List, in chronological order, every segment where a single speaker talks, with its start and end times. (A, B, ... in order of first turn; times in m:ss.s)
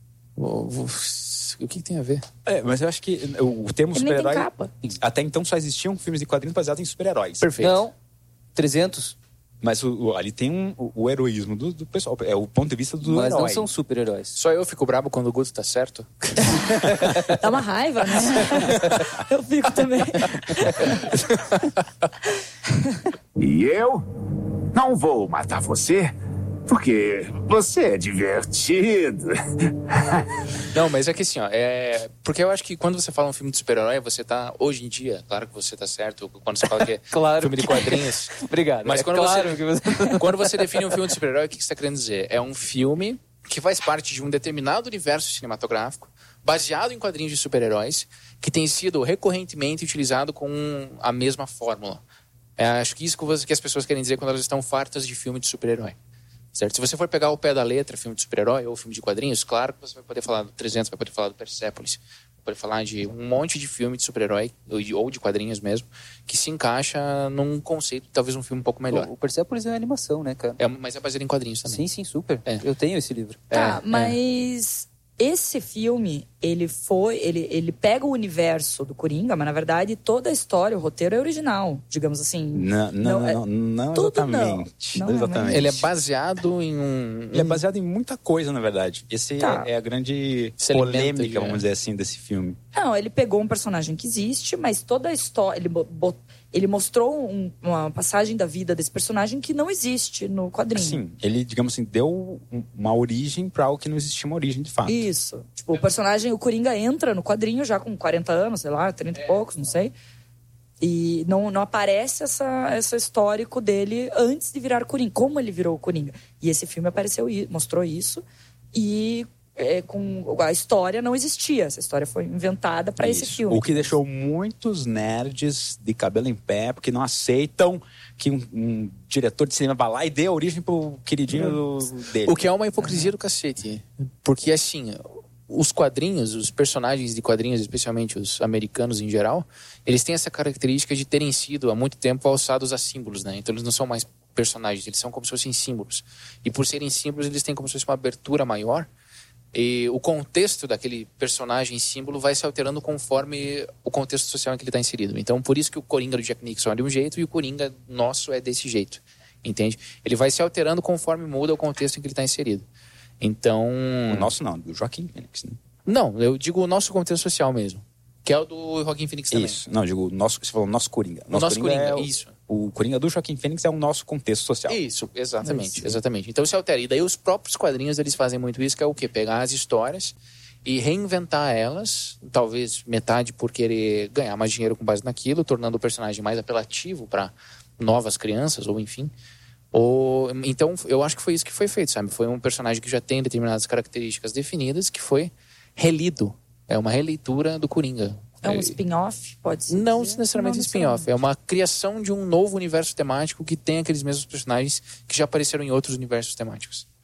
0:00.4-0:02.2 A
0:02.4-0:07.5 B
0:04.0-0:04.7 C
0:07.4-0:07.8 A
0:07.6-0:07.9 D
0:08.6-0:09.2 D
0:09.6-0:13.7 B
0:13.0-0:14.4 D
0:14.4-0:16.8 A
0:16.8-0:17.2 D
0:17.4-0:21.0 C
0:21.1-0:21.5 A
0:23.4-0:24.0 E
0:24.7-0:26.1 E
0:26.7-0:29.4 E
0:30.7-0:52.0 A
0:36.8-0:41.0 D
0:52.6-0:56.0 A
0:56.5-1:09.1 A
1:08.9-1:10.6 D
1:10.6-1:11.8 A
1:11.6-1:13.4 D
1:13.5-1:14.2 A
1:13.5-1:23.4 C
1:22.5-1:25.9 B
1:23.9-1:25.7 C
1:25.5-1:27.6 A
1:27.3-1:32.6 B
1:29.4-1:29.7 C
1:30.6-1:31.6 A
1:32.7-1:41.0 C
1:40.8-1:45.1 B
1:44.9-1:49.9 C
1:50.8-2:03.9 C
2:03.0-2:12.4 B
2:12.2-2:28.9 A
2:12.8-2:13.1 C
2:29.5-2:42.6 A
2:43.2-2:44.3 A
2:44.1-2:45.6 B
2:45.9-2:49.6 A
2:49.3-2:54.8 B
2:51.3-2:52.3 A
2:54.7-3:09.1 A
2:55.4-2:56.0 C
3:09.7-3:18.8 A
3:18.4-3:21.1 C
3:19.7-3:26.9 A